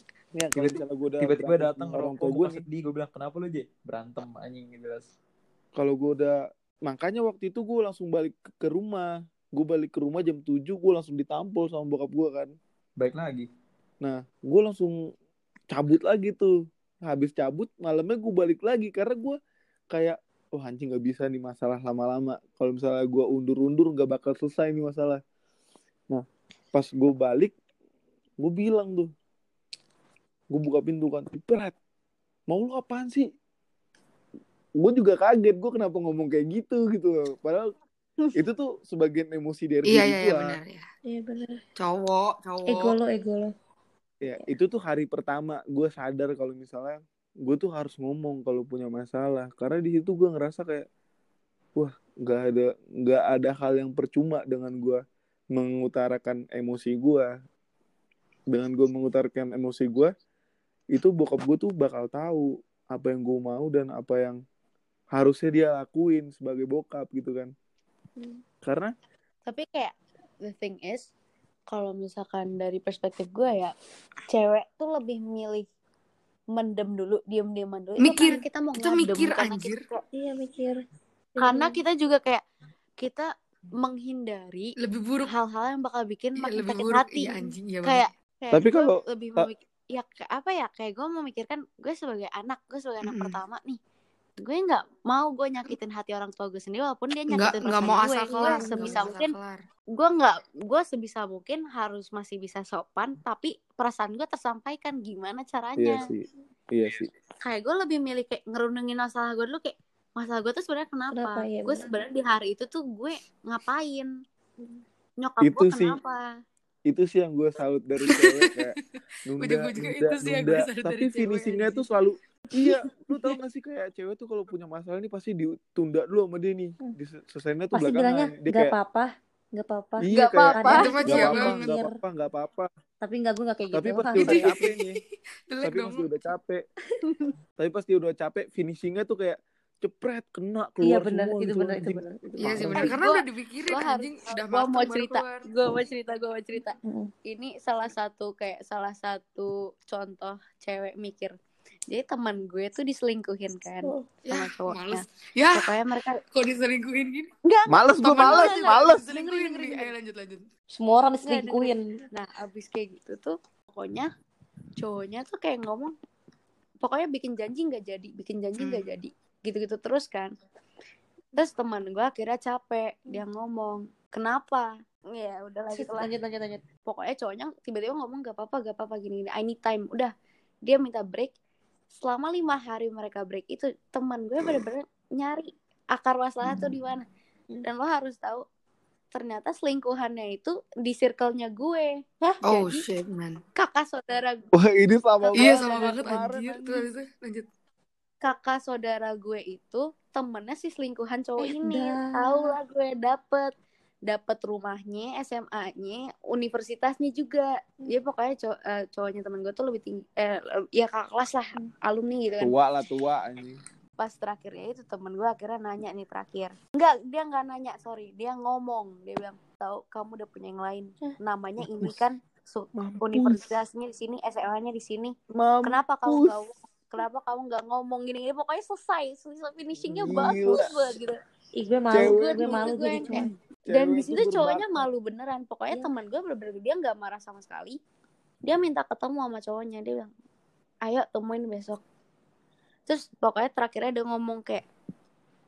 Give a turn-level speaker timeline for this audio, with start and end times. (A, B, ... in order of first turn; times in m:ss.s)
0:00.3-0:02.6 A
0:00.6-0:05.1 B
0:05.8-0:12.5 A
0:13.0-0:13.5 B
0:14.0-0:15.0 A
0:15.7-0:19.4 A
0:19.9-0:25.2 A
0:26.1-0:27.5 A
0:28.4-0:29.1 A
0:30.5-0:31.7 A
0:32.5-0:33.3 A
0:34.8-0:37.7 A
0:38.4-0:40.6 A
0:39.9-0:40.8 C
0:41.1-0:41.6 D
0:41.8-0:42.9 C
0:42.7-0:43.5 D
0:44.2-0:50.8 A
0:51.8-0:55.0 A
0:55.5-0:57.3 A
0:58.5-1:00.1 A
1:00.9-1:04.4 A
1:05.1-1:07.5 A
1:08.6-1:08.9 A
1:09.5-1:09.9 E
1:10.4-1:11.1 E
1:11.7-1:13.7 E
1:14.3-1:15.7 E
1:16.5-1:20.0 E
1:18.0-1:19.8 C
1:20.1-1:20.8 D
1:21.4-1:21.8 D
1:21.4-1:22.4 E
1:23.0-1:23.3 E
1:23.8-1:33.8 E
1:24.8-1:25.3 C
1:26.4-1:28.0 C
1:28.5-1:29.5 A
1:33.0-1:33.3 C
1:34.4-1:39.3 E
1:37.3-1:39.6 C
1:38.3-1:39.0 D
1:39.9-1:46.0 E
1:45.8-1:47.1 A
1:47.4-1:54.1 E
1:51.1-1:51.9 D
1:55.2-1:56.2 E
1:55.4-1:56.0 A
1:56.9-1:58.7 A
1:58.1-1:58.6 C
1:59.3-2:08.7 A
1:59.4-2:01.8 C
2:07.7-2:12.0 D
2:10.0-2:12.7 A
2:10.1-2:11.1 E
2:10.7-2:11.7 C
2:13.0-2:14.6 D
2:13.7-2:15.0 A
2:14.1-2:14.8 C
2:15.5-2:16.0 C
2:15.6-2:16.6 A
2:17.0-2:17.3 E
2:17.6-2:22.9 A
2:20.8-2:22.2 D
2:22.4-2:25.4 C
2:22.7-2:31.3 E
2:26.8-2:27.1 D
2:31.9-2:35.0 E
2:34.2-2:35.7 C
2:35.5-2:36.2 E
2:36.3-2:37.3 C
2:37.4-2:39.9 E
2:37.7-2:39.2 A
2:38.0-2:40.5 C
2:40.7-2:41.9 D
2:41.2-2:44.1 E
2:44.8-2:45.9 E
2:46.8-2:50.3 E
2:48.6-2:48.8 C
2:51.4-2:56.1 E
2:55.7-2:56.6 D
2:56.8-3:00.1 E
3:00.6-3:01.3 E
3:02.0-3:07.0 E
3:07.6-3:08.4 E
3:09.1-3:12.8 E
3:12.4-3:13.4 C
3:13.6-3:14.4 E
3:14.5-3:16.8 A
3:15.2-3:15.9 E
3:15.4-3:17.4 C
3:18.2-3:23.5 E
3:21.4-3:22.5 D
3:24.1-3:32.5 E
3:32.4-3:33.6 A
3:34.0-3:51.2 E
3:41.6-3:42.0 A
3:42.7-3:43.4 A
3:45.3-3:46.4 A
3:49.8-3:50.7 A
3:51.6-3:53.3 D
3:51.9-3:52.5 A
3:51.9-3:57.8 E
3:53.6-3:54.8 A
3:58.4-4:00.1 E
4:00.8-4:01.8 E
4:02.9-4:04.6 E